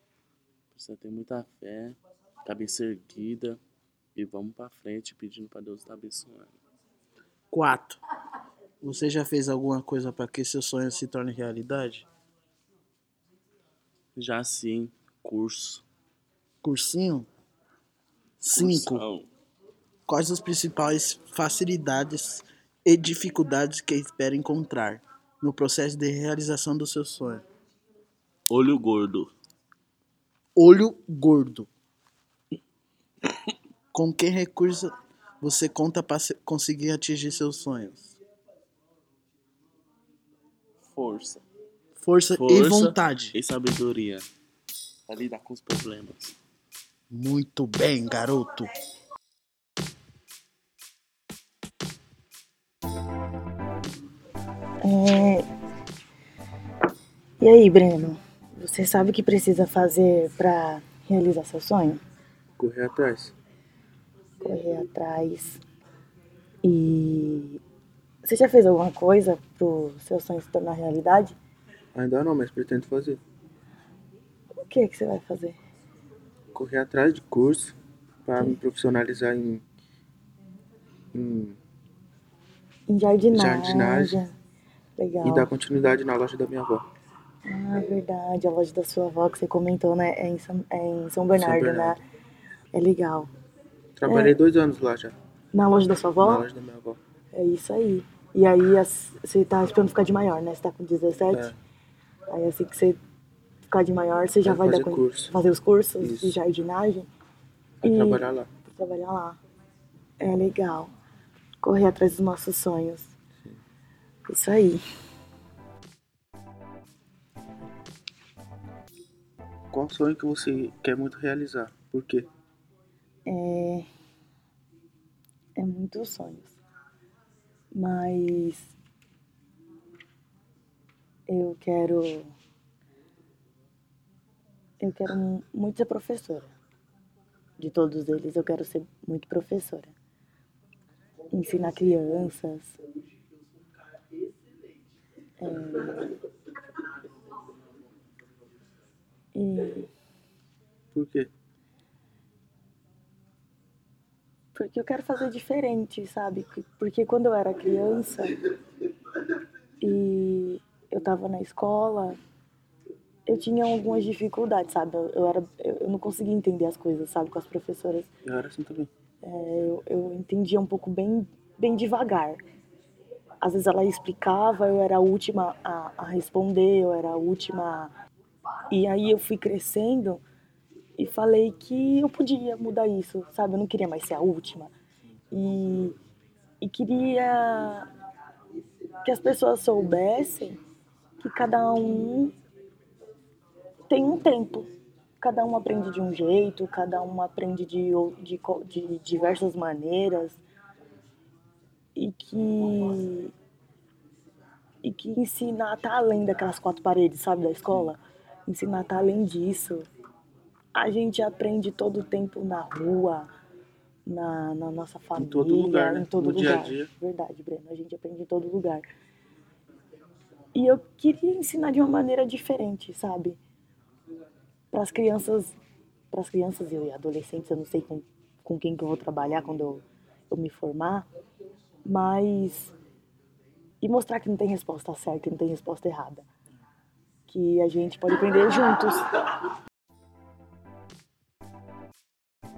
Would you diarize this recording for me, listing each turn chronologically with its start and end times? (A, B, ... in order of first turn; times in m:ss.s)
0:00.7-0:03.6 A
0:04.2-0:06.6 A
0:07.5-0:08.0 B
0:08.8-0:12.0 B
0:14.2-0:15.8 A
0:16.6-0:17.3 B
0:18.4-0:19.0 B
0:18.5-0:19.3 A
0:20.1-0:27.4 B
0:28.5-0:29.3 A
0:30.6-0:31.7 B
0:33.9-0:38.2 B
0:40.8-0:41.4 A
0:42.0-0:43.4 B
0:42.3-0:44.3 A
0:45.1-0:46.3 A
0:47.1-0:48.7 B
0:54.8-0:55.4 C
0:57.4-1:02.0 C
1:02.6-1:03.3 D
1:04.4-1:05.6 C
1:06.6-1:07.6 C
1:08.2-1:11.4 C
1:11.9-1:13.2 D
1:14.6-1:15.6 C
1:16.5-1:17.7 D
1:18.2-1:19.6 D
1:21.1-1:21.6 D
1:22.9-1:24.3 C
1:23.3-1:24.2 D
1:25.0-1:25.5 C
1:25.2-1:26.8 D
1:27.5-1:32.0 C
1:31.3-1:32.0 D
1:32.7-1:33.3 C
1:34.0-1:35.2 D
1:34.0-1:34.4 C
1:35.5-1:36.5 C
1:36.2-1:37.0 D
1:37.3-1:41.5 C
1:41.3-1:41.5 D
1:42.3-1:43.0 C
1:43.7-1:47.1 C
1:44.4-1:45.3 D
1:46.0-1:46.4 D
1:47.8-1:48.5 D
1:47.8-1:49.4 C
1:50.2-1:50.9 C
1:51.6-1:53.1 C
1:54.3-1:54.8 C
1:59.7-2:02.3 D
2:03.2-2:03.8 C
2:05.6-2:06.6 C
2:07.7-2:08.7 C
2:11.3-2:12.3 C
2:14.8-2:16.5 C
2:17.6-2:19.9 C
2:21.3-2:22.8 C
2:25.4-2:26.0 C
2:29.3-2:29.9 C
2:30.9-2:31.3 D
2:34.5-2:38.3 C
2:39.8-2:42.2 C
2:43.3-2:48.1 C
2:48.2-2:48.9 D
2:49.2-2:52.4 C
2:53.4-2:57.9 C
2:58.7-3:00.2 C
3:01.0-3:04.7 C
3:05.3-3:05.9 C
3:06.6-3:07.9 C
3:09.0-3:10.6 C
3:11.2-3:12.3 C
3:13.9-3:14.7 C
3:15.2-3:20.4 C
3:22.0-3:23.3 C
3:24.8-3:29.8 C
3:30.7-3:33.3 C
3:34.1-3:38.8 C
3:35.2-3:36.9 D
3:40.5-3:43.4 C
3:44.7-3:45.5 C
3:46.1-3:51.0 C
3:51.8-3:52.7 C
3:53.8-3:56.2 C
3:57.3-3:59.2 C